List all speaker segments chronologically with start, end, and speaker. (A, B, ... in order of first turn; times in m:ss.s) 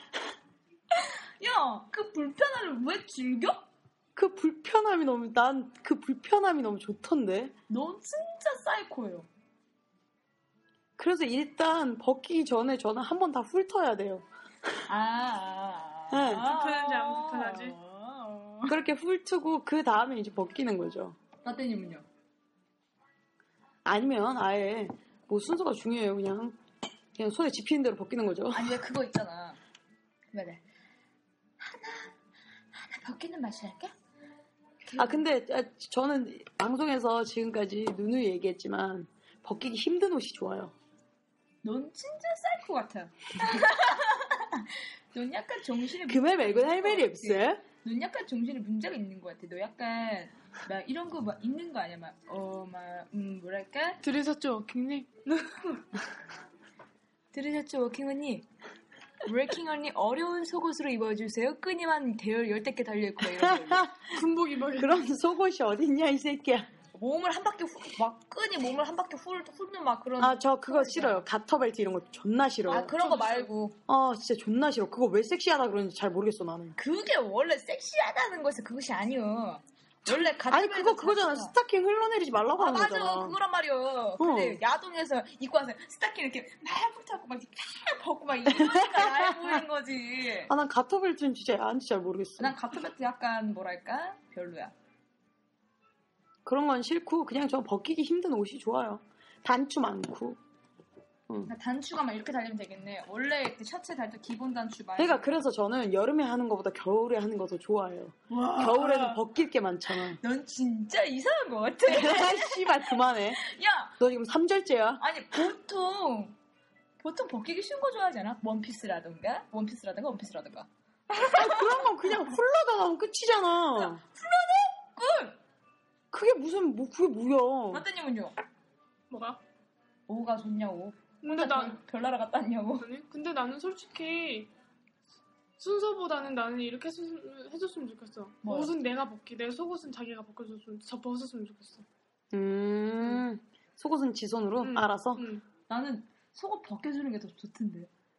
0:00.9-0:03.6 A
0:04.2-0:07.5 B
0:07.7-0:09.3 A
0:11.0-0:14.2 B
0:14.9-0:18.8 A
0:16.1-0:16.5 B
0:16.4-0:17.8 C
0:18.7-0:21.2 B
0:21.4-0:22.0 A
0:23.8-0:26.6 B
0:27.2-0:28.8 B
0:28.5-0:29.6 A
0:30.3-0:30.6 A
0:31.6-0:32.1 A
0:32.7-0:33.9 A
0:34.8-0:35.2 A
0:35.0-0:40.7 B
0:41.6-0:54.0 A
0:46.0-0:47.6 B
0:54.0-0:55.8 C
0:57.3-0:58.4 A
0:59.2-1:03.9 A
1:03.2-1:04.1 B
1:04.1-1:05.0 C
1:04.7-1:06.7 B
1:06.9-1:11.2 A
1:10.2-1:13.0 B
1:12.7-1:13.8 A
1:13.0-1:13.5 C
1:13.9-1:16.8 B
1:16.8-1:21.5 A
1:20.1-1:23.4 B
1:22.6-1:30.5 A
1:24.2-1:24.6 B
1:28.5-1:29.5 B
1:30.5-1:32.6 B
1:32.4-1:34.7 A
1:36.4-1:40.4 B
1:41.4-1:45.3 A
1:45.0-1:50.2 B
1:48.3-1:49.2 A
1:50.2-1:53.9 A
1:51.8-1:53.4 B
1:54.0-1:55.0 B
1:55.0-1:56.3 A
1:57.0-2:01.9 A
2:01.3-2:04.0 B
2:03.8-2:05.4 A
2:06.1-2:07.8 B
2:07.7-2:08.3 A
2:09.1-2:09.4 C
2:10.1-2:12.8 A
2:11.2-2:11.8 C
2:12.8-2:14.5 C
2:15.6-2:21.8 C
2:18.4-2:18.7 A
2:22.3-2:25.2 B
2:24.6-2:25.4 C
2:25.7-2:27.9 A